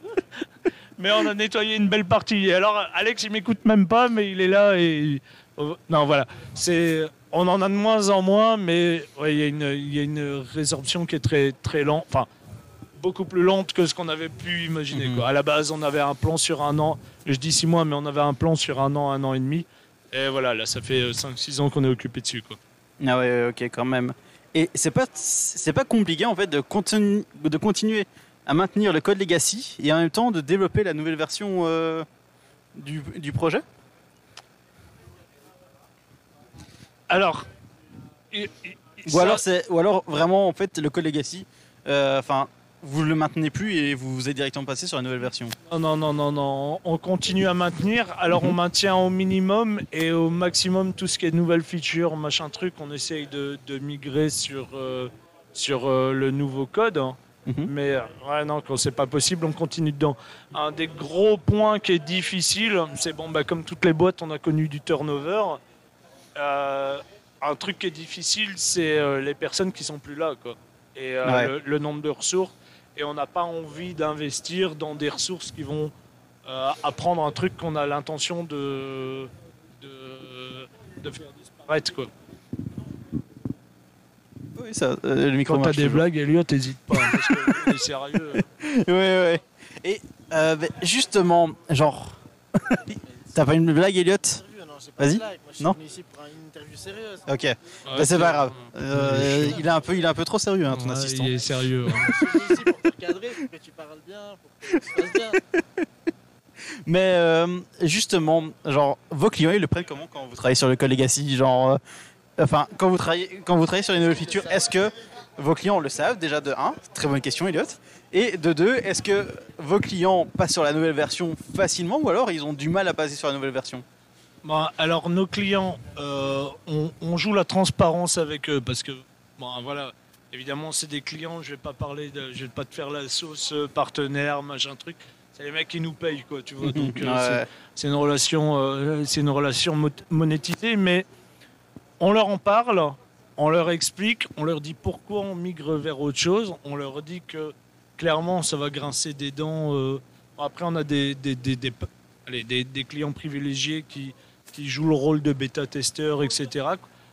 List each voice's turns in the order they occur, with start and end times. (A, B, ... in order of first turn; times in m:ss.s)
0:01.0-0:12.3 A
0:13.0-0:22.6 A
0:14.9-0:15.2 B
0:23.0-0:32.0 B
0:32.8-0:33.6 B
0:37.1-0:37.4 A
0:38.3-0:39.4 A
0:39.1-0:45.6 B
0:45.7-1:05.6 A
0:48.3-0:48.6 B
1:06.4-1:15.9 A
1:11.2-1:11.5 B
1:16.5-1:22.1 A
1:24.6-1:26.0 B
1:25.5-1:28.4 A
1:26.9-1:27.7 B
1:28.5-1:34.4 B
1:34.4-1:37.3 C
1:35.0-1:35.8 B
1:37.3-1:41.3 B
1:37.9-1:39.6 A
1:40.7-1:42.3 A
1:41.9-1:45.4 C
1:45.0-1:45.6 B
1:46.9-1:51.8 B
1:52.4-2:03.8 B
2:04.4-2:21.1 A
2:16.6-2:17.5 B
2:22.0-2:36.8 A